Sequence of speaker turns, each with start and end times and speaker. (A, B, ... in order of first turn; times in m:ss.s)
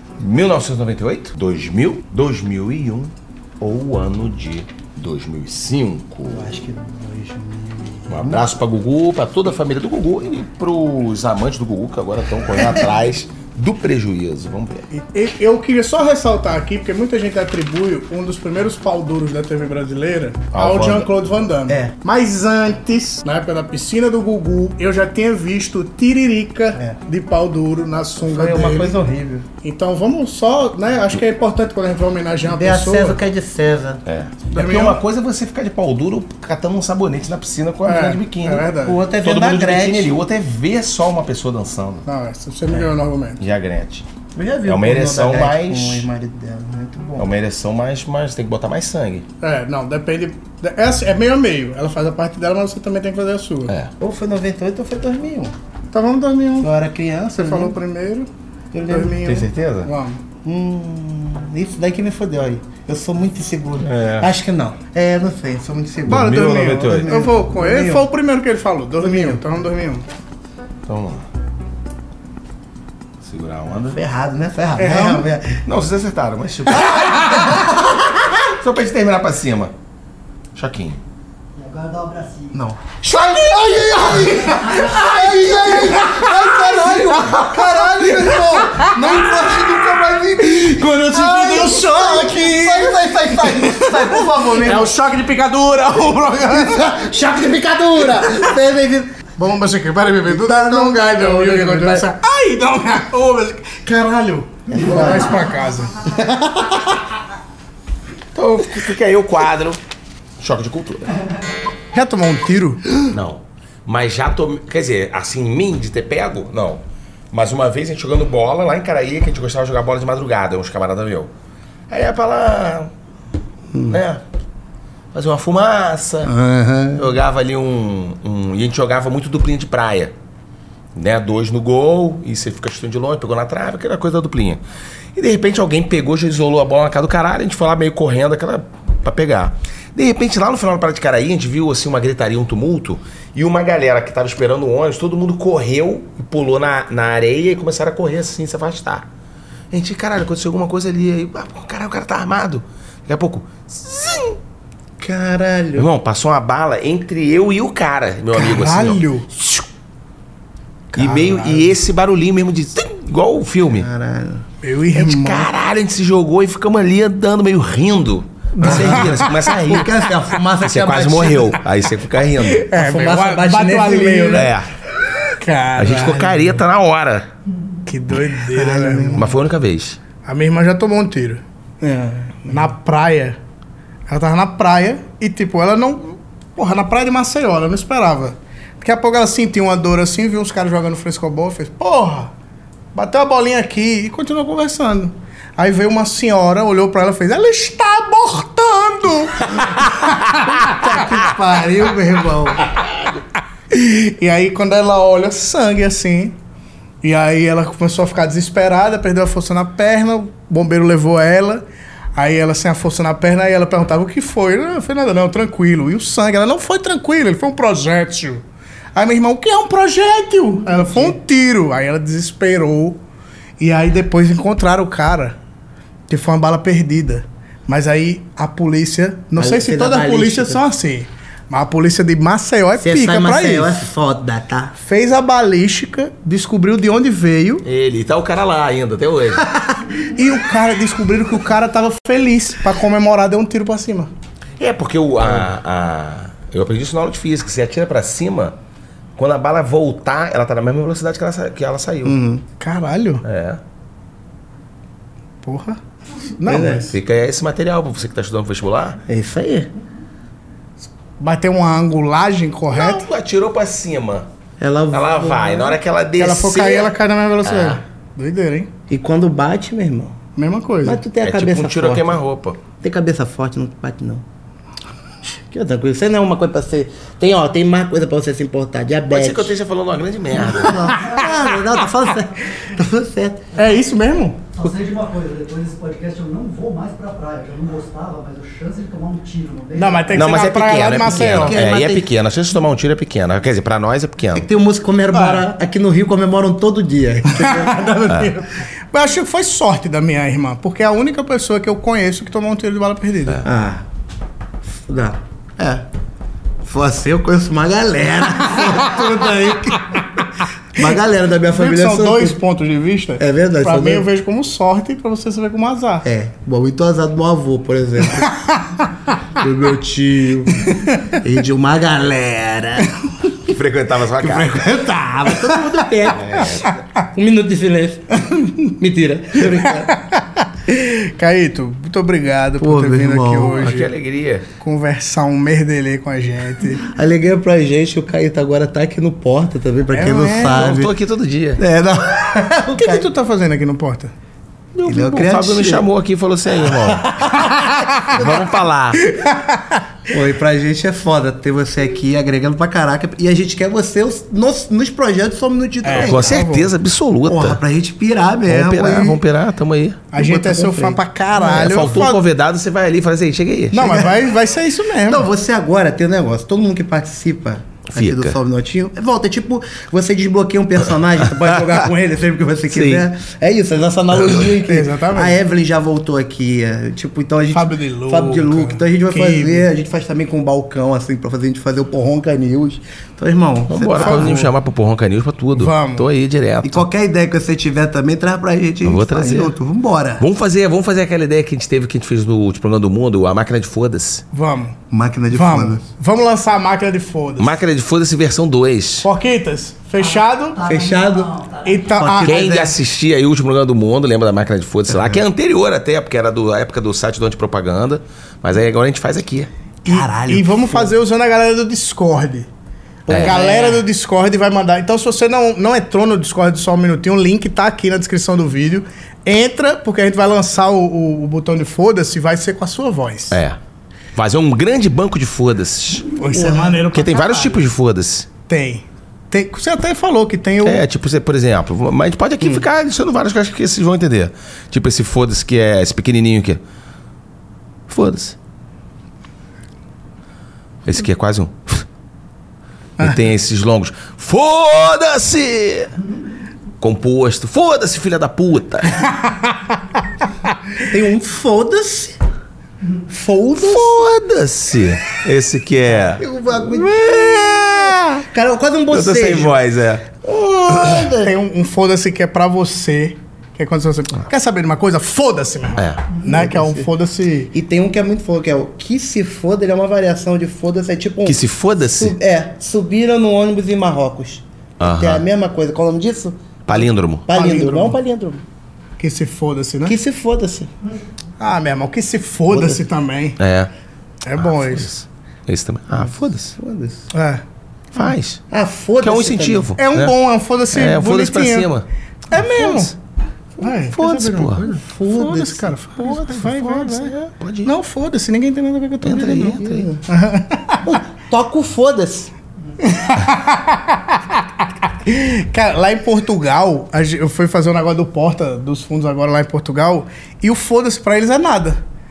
0:00.2-0:06.5 A
0:06.3-0:08.5 B
0:08.1-0:14.9 A
0:14.9-0:29.0 C
0:20.5-0:21.1 A
0:28.2-0:29.5 B
0:29.6-0:33.2 C
0:32.4-0:34.0 B
0:34.1-0:38.7 A
0:34.5-0:35.0 C
0:37.8-0:39.0 C
0:38.8-0:40.1 B
0:39.2-0:42.0 A
0:42.1-0:43.4 C
0:43.4-0:44.1 A
0:44.4-0:47.3 B
0:44.6-0:46.1 A
0:47.2-0:49.3 A
0:49.4-0:53.7 C
0:54.0-0:55.5 B
0:55.9-0:56.7 C
0:56.6-0:57.8 B
0:57.4-0:58.3 C
0:58.7-0:59.2 B
0:58.9-1:00.2 C
0:59.1-0:59.9 A
1:00.4-1:08.1 B
1:03.8-1:04.3 A
1:06.1-1:07.1 A
1:06.1-1:10.1 C
1:09.0-1:09.4 B
1:10.9-1:11.2 A
1:13.2-1:14.0 A
1:13.9-1:15.6 B
1:14.8-1:15.3 C
1:15.6-1:17.6 A
1:16.7-1:18.0 B
1:18.2-1:19.7 A
1:20.5-1:21.0 A
1:21.6-1:22.6 D
1:22.5-1:34.9 B
1:23.0-1:29.5 C
1:24.6-1:24.9 D
1:30.7-1:37.0 C
1:36.5-1:39.1 B
1:39.4-1:46.0 C
1:40.3-1:42.1 B
1:44.7-1:45.3 B
1:46.1-1:47.0 B
1:48.4-1:49.8 A
1:50.4-1:51.1 A
1:51.9-1:52.9 C
1:53.1-2:01.3 A
2:01.9-2:02.9 A
2:03.7-2:04.0 B
2:03.9-2:04.2 A
2:05.1-2:06.3 A
2:06.2-2:07.1 B
2:07.0-2:10.1 A
2:11.0-2:14.6 A
2:15.2-2:29.1 A
2:29.7-2:34.4 A
2:35.0-2:35.9 B
2:35.8-2:39.7 A
2:38.4-2:39.3 C
2:40.9-2:41.8 C
2:41.0-2:43.9 A
2:43.8-2:44.5 B
2:44.6-2:45.5 C
2:44.9-2:50.0 A
2:48.6-2:49.4 C
2:48.6-2:51.6 B
2:50.6-2:52.6 A
2:52.4-2:54.5 C
2:52.7-2:54.5 B
2:54.3-2:54.7 A
2:55.4-2:56.4 C
2:55.8-2:57.3 A
2:57.9-2:59.3 C
2:58.5-2:59.3 B
2:59.2-3:00.0 A
3:00.2-3:01.4 C
3:01.8-3:02.7 B
3:02.5-3:03.4 C
3:04.1-3:12.3 C
3:12.9-3:20.8 C
3:19.6-3:22.7 B
3:23.7-3:26.4 C
3:27.0-3:31.6 C
3:32.2-3:38.4 C
3:39.0-3:43.0 C
3:43.6-3:45.4 C
3:46.1-3:53.8 C
3:49.4-3:50.6 B
3:52.8-3:54.7 B
3:54.8-3:57.6 C
3:57.6-3:59.5 A
4:00.1-4:04.1 C
4:04.6-4:08.6 A
4:09.2-4:12.2 A
4:12.0-4:12.4 B
4:12.6-4:13.2 C
4:13.2-4:13.6 A
4:15.4-4:15.8 C
4:16.4-4:17.0 C
4:16.5-4:16.9 B
4:16.9-4:19.0 A
4:19.1-4:19.7 B
4:21.2-4:23.0 C
4:22.7-4:24.3 A
4:24.6-4:25.8 B
4:24.9-4:27.8 A
4:26.2-4:28.7 C
4:28.9-4:30.2 B
4:30.4-4:31.0 C
4:30.8-4:32.2 B
4:31.2-4:32.6 A
4:32.8-4:34.2 B
4:35.5-4:39.5 B
4:39.1-4:41.0 A
4:40.4-4:43.4 B
4:43.6-4:44.4 C
4:44.5-4:50.2 D
4:49.8-4:51.6 C
4:50.1-4:54.5 A
4:51.2-4:52.1 B
4:54.3-4:57.8 B
4:55.1-4:55.4 C
4:57.4-5:03.4 C
5:03.4-5:03.8 B
5:04.9-5:05.9 B
5:06.6-5:10.0 B
5:10.8-5:12.4 B
5:11.5-5:16.0 C
5:13.2-5:14.1 B
5:16.0-5:18.3 B
5:18.2-5:18.7 C
5:19.4-5:23.0 B
5:20.6-5:21.1 C
5:23.4-5:24.7 A
5:24.2-5:30.0 B
5:26.2-5:26.7 A
5:29.5-5:33.9 C
5:32.6-5:33.7 B
5:33.5-5:34.5 A
5:34.6-5:36.9 C
5:36.9-5:40.9 B
5:39.9-5:40.7 C
5:40.4-5:41.6 A
5:41.6-5:43.1 B
5:42.8-5:44.1 C
5:44.8-5:47.3 A
5:44.8-5:45.9 B
5:46.9-5:48.4 B
5:47.5-5:48.1 C
5:48.1-5:49.0 A
5:49.0-5:49.8 C
5:50.1-5:56.3 B
5:55.8-5:56.7 C
5:55.9-5:57.6 A
5:57.3-5:59.2 B
5:58.5-6:00.0 A
6:00.1-6:02.2 C
6:00.2-6:01.5 B
6:01.4-6:03.8 A
6:03.7-6:05.3 C
6:03.8-6:04.3 B
6:05.1-6:24.5 B
6:07.9-6:08.4 A
6:12.7-6:13.1 A
6:14.5-6:15.4 C
6:17.5-6:19.7 C
6:23.7-6:26.9 A
6:24.0-6:24.4 C
6:25.5-6:26.1 C
6:26.6-6:30.2 B
6:28.8-6:29.6 A
6:30.2-6:34.2 A
6:34.3-6:34.8 C
6:34.9-6:35.8 B
6:35.3-6:37.6 C
6:37.4-6:39.1 A
6:39.0-6:40.6 C
6:40.1-6:41.8 D
6:40.6-6:41.4 B
6:41.6-6:42.4 C
6:41.9-6:42.8 B
6:42.2-6:49.5 A
6:49.9-6:52.5 C
6:49.9-6:50.9 B
6:53.1-7:03.4 C
6:53.1-6:53.9 B
6:53.1-6:53.4 A
7:03.3-7:03.6 A
7:04.2-7:06.1 A
7:06.2-7:07.6 C
7:06.3-7:06.8 B
7:06.9-7:08.3 A
7:08.5-7:10.8 C
7:10.6-7:16.6 A
7:17.9-7:18.4 A
7:20.8-7:21.8 A
7:23.0-7:25.9 A
7:26.8-7:29.1 A
7:30.8-7:32.2 B
7:33.1-7:33.9 B
7:33.6-7:38.0 A
7:36.0-7:37.5 B
7:38.2-7:39.6 B
7:38.9-7:40.1 A
7:40.2-7:41.3 B
7:41.2-7:47.5 C
7:45.8-7:46.0 A
7:46.2-7:46.9 B
7:47.5-7:56.4 B
7:51.2-7:52.2 A
7:54.8-7:55.2 A
7:56.7-7:57.3 A
7:57.2-7:58.4 B
7:57.3-7:58.0 C
7:59.0-8:00.0 C
7:59.9-8:00.7 B
8:01.4-8:03.4 C
8:02.5-8:02.8 B
8:03.4-8:03.7 A
8:04.2-8:04.9 C
8:04.4-8:06.6 A
8:06.0-8:07.1 B
8:07.1-8:07.4 C
8:07.9-8:08.4 A
8:08.5-8:09.7 B
8:09.0-8:10.2 A
8:09.8-8:11.7 C
8:10.7-8:12.9 A
8:12.3-8:12.9 C
8:13.6-8:20.8 C
8:13.9-8:15.3 A
8:15.0-8:15.7 B
8:16.0-8:17.7 A
8:19.0-8:19.9 A
8:19.2-8:20.0 B
8:20.8-8:22.3 B
8:22.8-8:31.8 C